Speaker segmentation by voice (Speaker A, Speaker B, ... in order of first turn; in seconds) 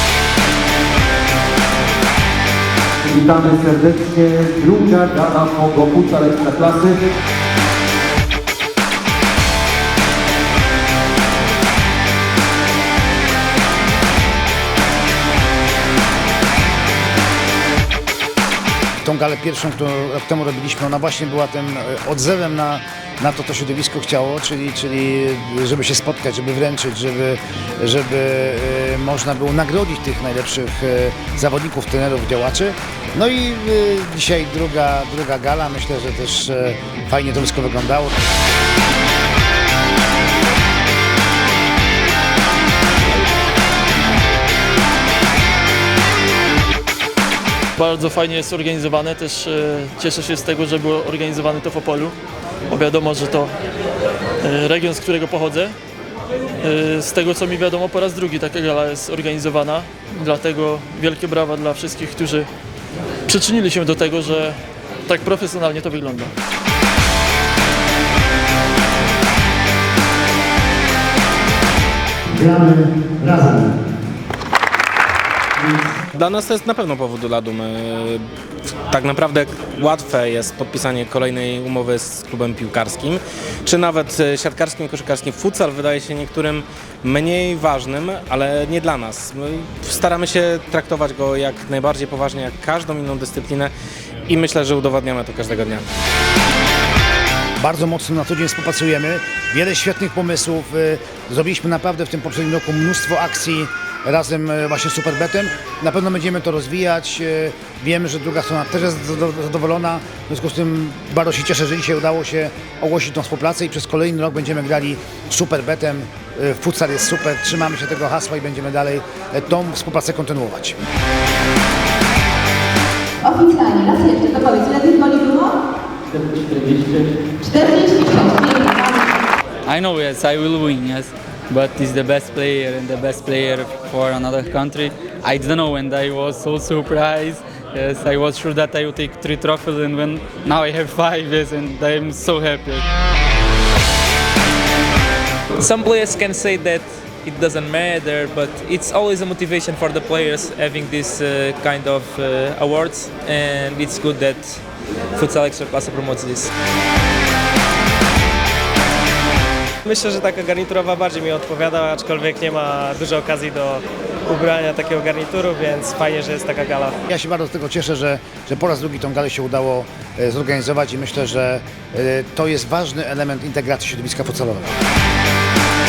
Speaker A: 3.1-7.0
Speaker B: 19.0-38.1, 72.3-73.7, 97.6-120.8, 167.1-174.7
Speaker C: 47.8-52.1, 52.7-53.5, 54.4-55.8, 56.6-62.5, 63.3-66.3
Speaker D: 76.1-78.2, 78.9-93.7, 94.3-95.8
Speaker E: 123.2-125.5, 127.4-129.1
Speaker F: 129.7-142.8
Speaker G: 145.6-154.6, 155.2-156.5
Speaker H: 159.8-167.0